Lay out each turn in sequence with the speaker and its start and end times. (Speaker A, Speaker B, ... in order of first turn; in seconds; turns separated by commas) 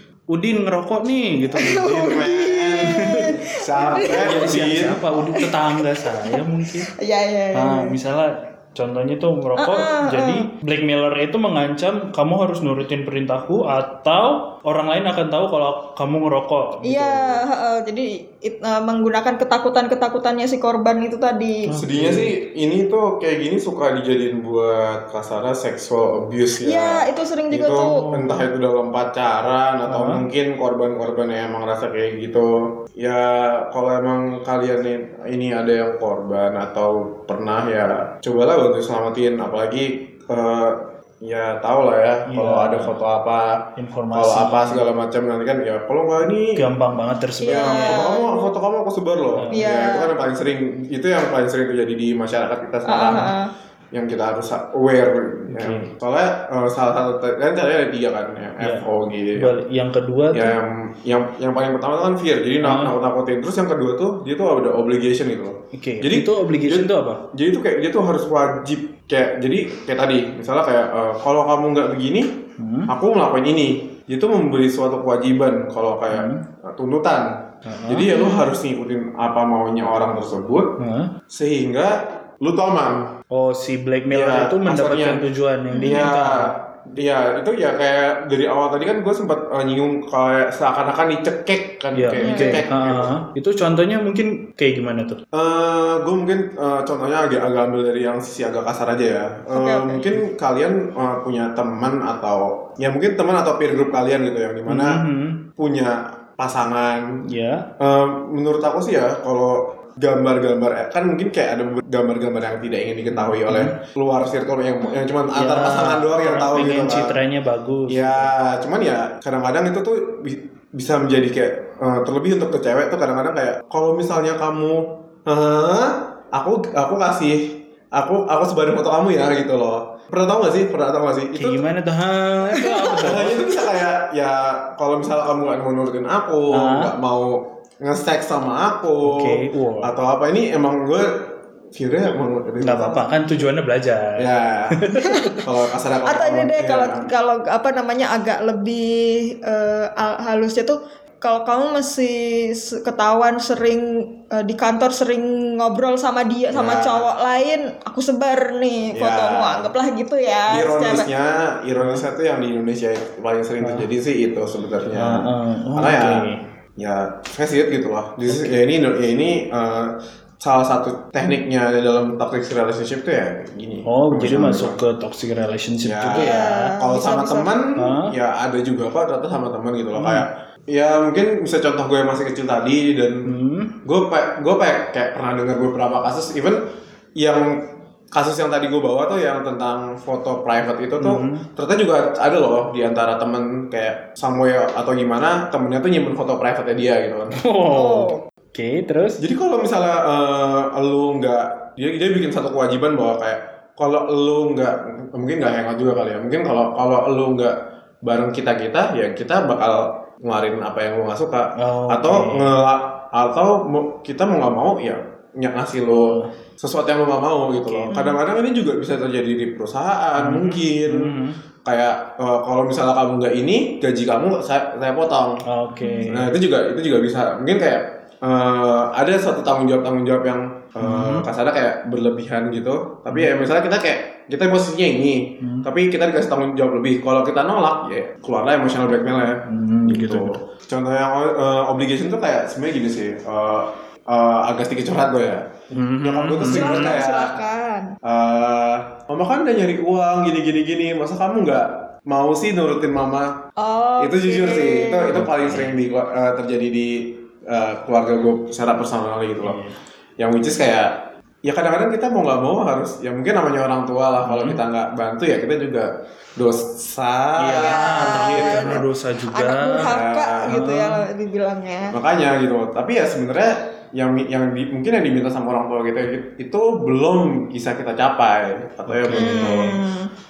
Speaker A: 0.3-2.2, Speaker B: 1.6-4.4, Speaker C: 2.0-5.0, Speaker A: 2.8-6.9, Speaker B: 5.2-6.4, Speaker B: 6.9-8.0, Speaker A: 7.5-17.4, Speaker B: 9.6-10.5, Speaker B: 16.8-21.7, Speaker A: 21.7-22.3, Speaker C: 21.7-46.6, Speaker B: 26.6-28.0, Speaker A: 29.9-30.2, Speaker A: 42.3-42.9, Speaker A: 43.8-44.9, Speaker A: 46.5-48.0, Speaker B: 47.4-48.5, Speaker C: 47.5-53.3, Speaker A: 49.4-49.7, Speaker B: 49.5-50.1, Speaker B: 52.9-53.5, Speaker C: 53.9-59.5, Speaker A: 55.5-55.9, Speaker A: 58.6-60.6, Speaker C: 60.3-72.3, Speaker A: 62.6-62.9, Speaker A: 65.7-67.2, Speaker A: 72.6-72.9, Speaker C: 72.9-80.8, Speaker A: 76.1-76.4, Speaker A: 77.7-78.1, Speaker B: 78.1-78.4, Speaker A: 80.8-81.1, Speaker C: 81.3-83.2, Speaker A: 83.3-86.5, Speaker C: 84.1-85.2, Speaker B: 85.7-86.0, Speaker C: 85.8-93.1, Speaker A: 92.0-95.2, Speaker B: 92.2-92.6, Speaker C: 95.3-105.0, Speaker B: 99.5-100.1, Speaker A: 104.7-105.4, Speaker C: 105.6-107.2, Speaker A: 107.3-107.7, Speaker C: 107.8-117.2, Speaker A: 113.1-113.8, Speaker A: 115.3-118.3, Speaker C: 117.9-131.6, Speaker A: 131.3-133.4, Speaker B: 132.6-133.0, Speaker C: 132.9-143.1, Speaker A: 136.5-136.9, Speaker A: 139.0-139.9, Speaker A: 142.6-145.5, Speaker C: 144.2-147.1, Speaker B: 145.0-145.4, Speaker B: 146.1-161.1, Speaker C: 156.5-157.1, Speaker C: 158.9-159.7, Speaker C: 160.5-174.8, Speaker A: 161.8-162.1, Speaker A: 163.6-163.9, Speaker A: 165.0-166.4, Speaker A: 173.9-176.5, Speaker C: 175.8-183.3, Speaker B: 176.2-177.5, Speaker A: 177.8-178.1, Speaker A: 179.9-180.3, Speaker A: 183.3-183.8, Speaker C: 183.8-186.6, Speaker C: 187.2-197.4, Speaker A: 191.0-191.5, Speaker A: 197.4-199.2, Speaker B: 197.7-198.2, Speaker C: 199.2-225.4, Speaker A: 211.6-212.5, Speaker A: 215.9-216.3, Speaker A: 217.6-217.9, Speaker B: 217.9-218.2, Speaker A: 220.2-221.4, Speaker A: 225.5-226.4, Speaker B: 225.8-226.1, Speaker C: 226.1-245.5, Speaker A: 230.8-231.3, Speaker A: 235.4-235.7, Speaker A: 239.5-240.4, Speaker A: 245.7-247.0, Speaker C: 246.0-247.4, Speaker B: 246.5-247.9, Speaker C: 248.0-253.4, Speaker B: 253.6-255.2, Speaker C: 254.0-259.6, Speaker A: 255.1-255.8, Speaker A: 259.4-259.8, Speaker C: 260.2-268.9, Speaker A: 264.2-264.6, Speaker A: 267.4-271.1, Speaker B: 267.6-271.9, Speaker C: 269.8-270.6, Speaker C: 271.9-279.8, Speaker A: 278.9-279.7, Speaker B: 279.1-280.1